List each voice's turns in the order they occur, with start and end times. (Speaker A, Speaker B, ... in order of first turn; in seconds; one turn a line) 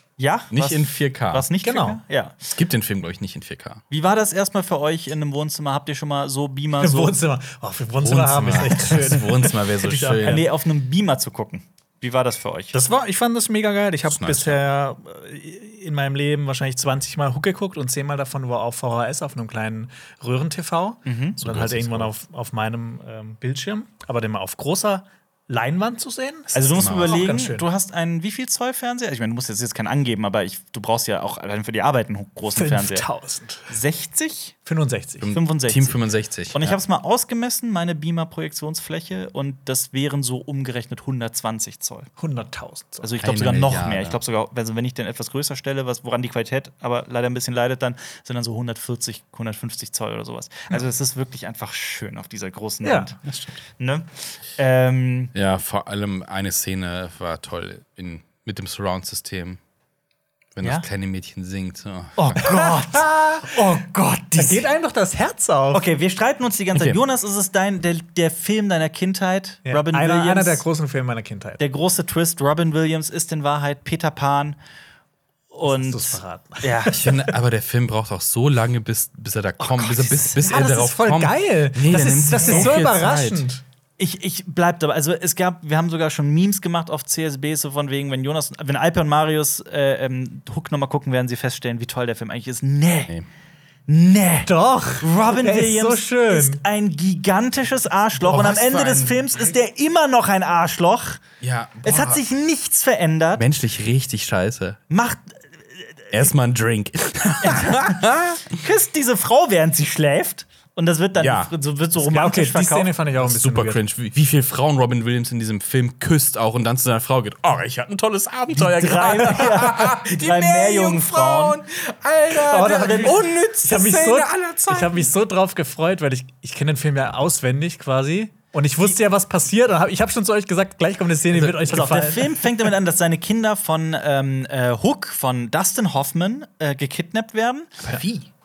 Speaker A: 0.2-2.4
Speaker B: 0.5-1.5
Speaker C: 1.6-2.0
Speaker B: 2.5-3.8
Speaker A: 3.9-7.2
Speaker C: 6.8-10.4
Speaker B: 8.0-10.4
Speaker A: 10.2-12.8
Speaker C: 12.7-27.7
Speaker B: 14.1-14.6
Speaker A: 21.1-21.4
Speaker B: 21.4-22.1
Speaker A: 26.5-33.1
Speaker B: 26.6-27.3
Speaker C: 32.5-33.7
Speaker A: 33.7-34.6
Speaker C: 34.6-35.3
Speaker B: 35.2-36.8
Speaker A: 35.3-36.0
Speaker A: 36.5-42.1
Speaker C: 42.2-43.1
Speaker A: 43.0-53.2
Speaker B: 43.2-44.2
Speaker C: 52.8-53.1
Speaker B: 53.3-53.6
Speaker A: 53.8-55.3
Speaker B: 55.3-59.6
Speaker B: 60.5-62.5
Speaker A: 62.2-64.7
Speaker C: 62.4-63.6
Speaker C: 64.4-65.8
Speaker A: 65.7-70.6
Speaker B: 66.7-67.0
Speaker C: 69.7-71.6
Speaker A: 71.6-74.6
Speaker A: 75.5-77.0
Speaker C: 75.6-77.3
Speaker B: 76.9-83.5
Speaker A: 79.6-80.1
Speaker C: 80.2-83.6
Speaker A: 84.0-93.1
Speaker A: 93.9-101.2
Speaker C: 94.5-96.6
Speaker B: 98.2-99.3
Speaker B: 101.4-102.2
Speaker A: 101.8-103.5
Speaker B: 103.4-104.8
Speaker A: 104.9-106.1
Speaker B: 106.1-108.4
Speaker A: 107.4-112.9
Speaker B: 111.2-111.5
Speaker C: 112.0-113.8
Speaker B: 113.2-125.1
Speaker A: 118.6-121.6
Speaker C: 122.4-132.7
Speaker A: 122.5-123.3
Speaker A: 131.6-137.7
Speaker B: 137.8-138.3